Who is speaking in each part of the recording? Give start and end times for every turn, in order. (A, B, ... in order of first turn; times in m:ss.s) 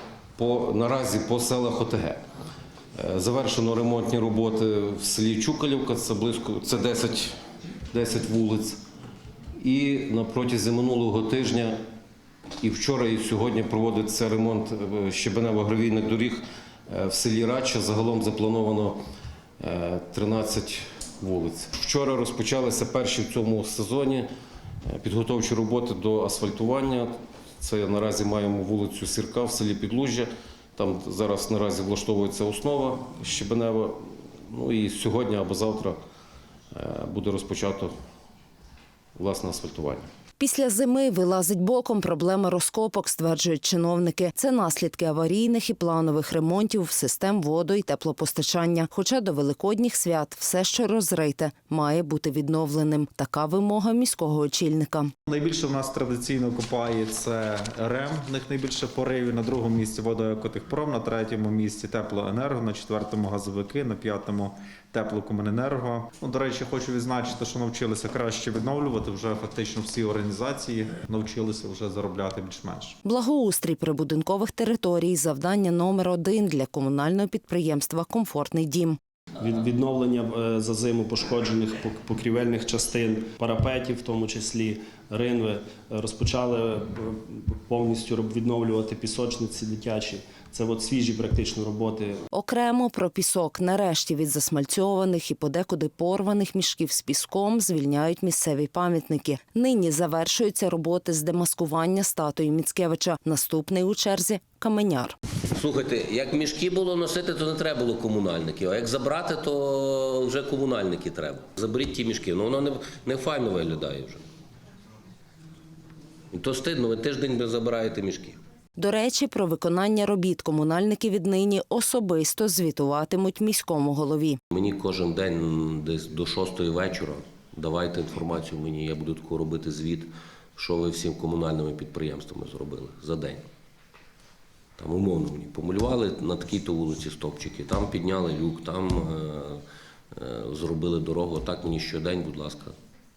0:00.4-0:02.2 A
0:02.9-0:07.3 A
0:07.9-0:08.8 A
0:09.6-0:11.8 A
0:12.6-0:19.0 A
0:19.6-0:24.3 A
0:24.8-0:36.0 A
0:36.7-0:37.9 A
0:39.2-0:40.0 A
0:40.4-0:55.1 B
0:55.3-1:13.0 C
1:13.0-1:19.0 B
1:19.4-1:32.2 D
1:32.3-1:45.2 B
1:45.5-1:54.2 E
1:56.3-1:58.4 E
1:58.8-2:04.4 B
2:04.5-2:13.4 E
2:14.8-2:22.8 E